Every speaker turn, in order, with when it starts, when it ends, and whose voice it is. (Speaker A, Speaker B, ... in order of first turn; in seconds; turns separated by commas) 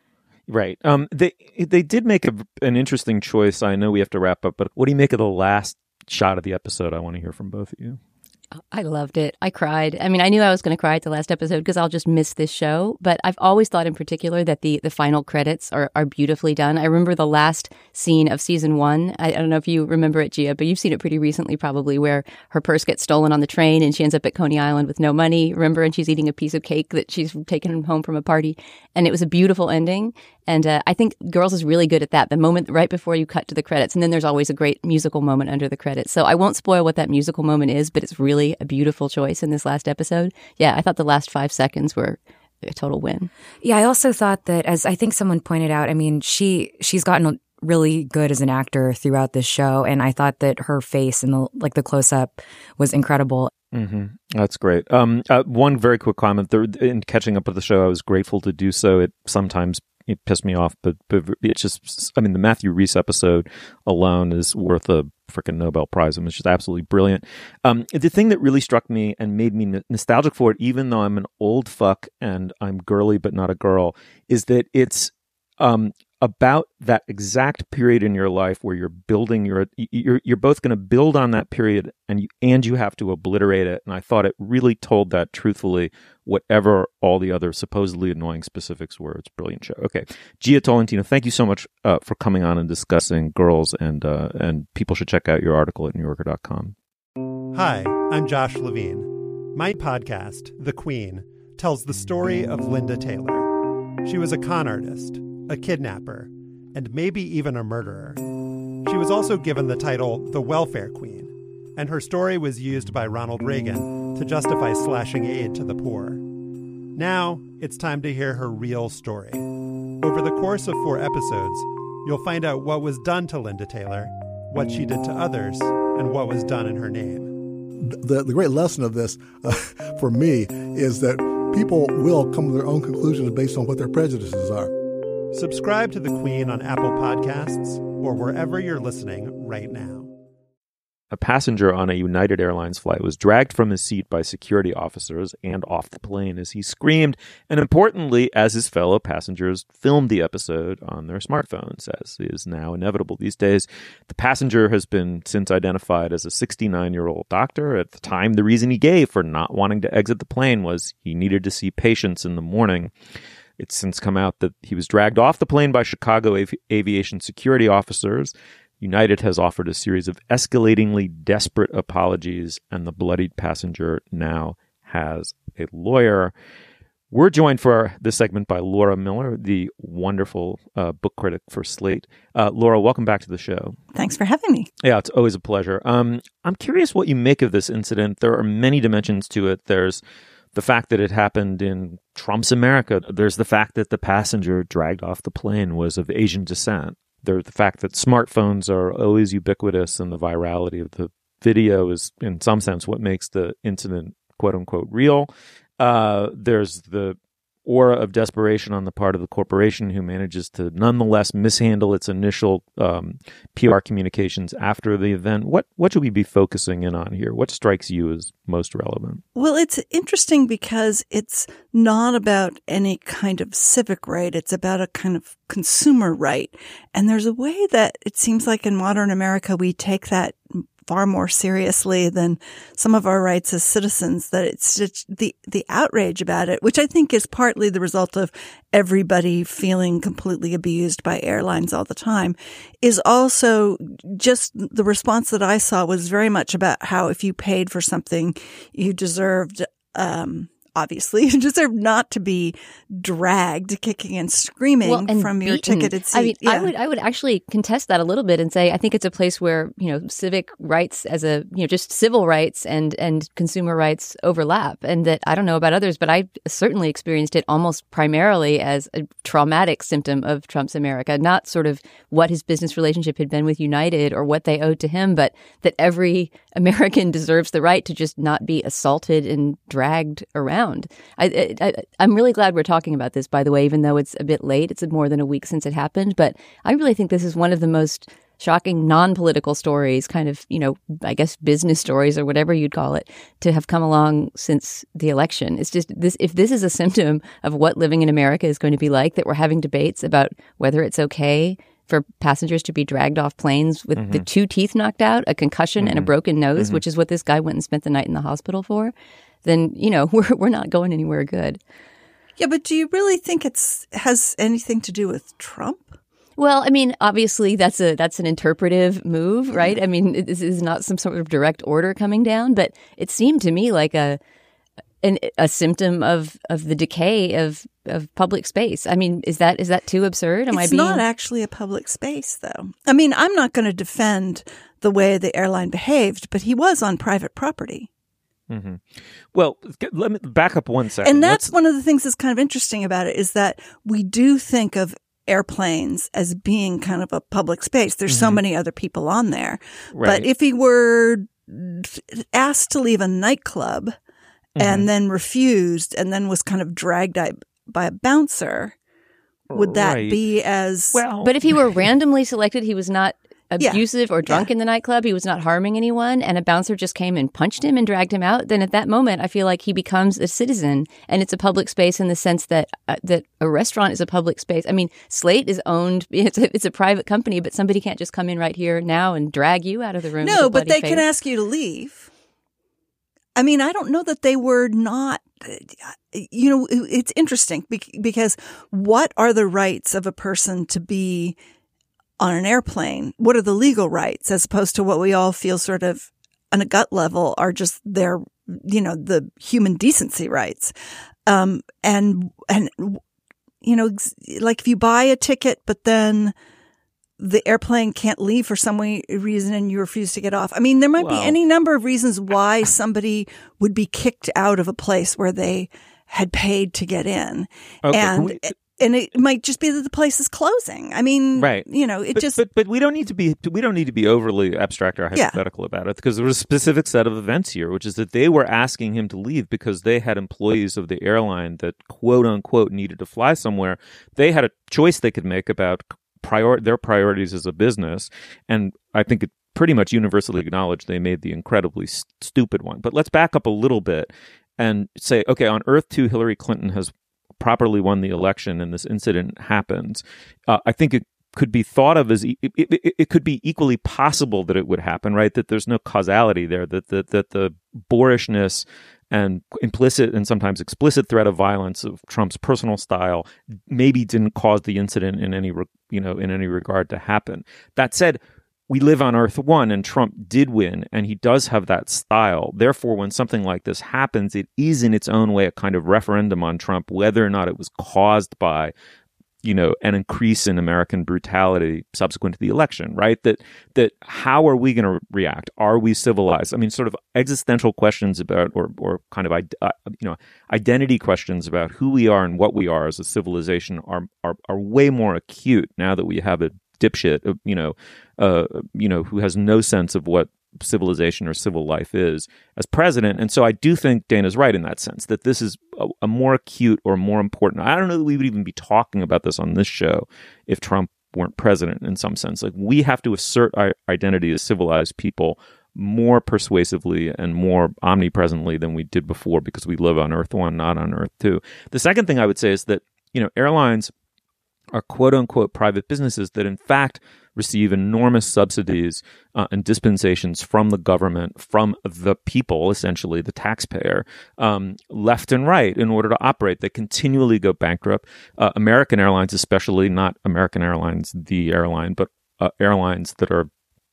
Speaker A: 0.5-8.0, Speaker B: 8.7-43.3, Speaker C: 43.6-53.5, Speaker A: 53.7-96.8, Speaker D: 97.5-108.2, Speaker D: 108.8-116.2, Speaker D: 117.0-119.5, Speaker D: 120.0-127.3, Speaker E: 127.8-134.7, Speaker D: 135.3-140.1, Speaker A: 141.1-162.9, Speaker A: 163.6-176.3, Speaker A: 177.1-183.8, Speaker F: 183.9-184.7, Speaker A: 184.8-190.0, Speaker A: 190.5-219.2, Speaker F: 219.3-256.7, Speaker B: 254.8-311.6, Speaker A: 304.0-304.2, Speaker A: 305.8-306.8, Speaker F: 312.4-315.9, Speaker B: 316.4-324.2, Speaker B: 325.0-331.0, Speaker F: 330.5-337.9, Speaker A: 338.5-341.5, Speaker F: 341.0-354.0, Speaker A: 348.1-348.4, Speaker A: 349.9-350.3, Speaker F: 354.6-358.7, Speaker A: 354.6-354.9, Speaker A: 359.5-360.2, Speaker F: 359.5-361.1, Speaker A: 360.9-361.3, Speaker B: 361.2-381.0, Speaker F: 363.6-364.5, Speaker F: 380.2-382.1, Speaker F: 383.4-391.4, Speaker F: 392.2-400.7, Speaker F: 401.3-403.0, Speaker F: 403.6-406.3, Speaker F: 407.2-422.4, Speaker A: 411.0-411.4, Speaker A: 417.9-418.5, Speaker A: 421.4-478.7, Speaker F: 425.1-425.4, Speaker A: 479.4-523.9, Speaker A: 524.7-543.5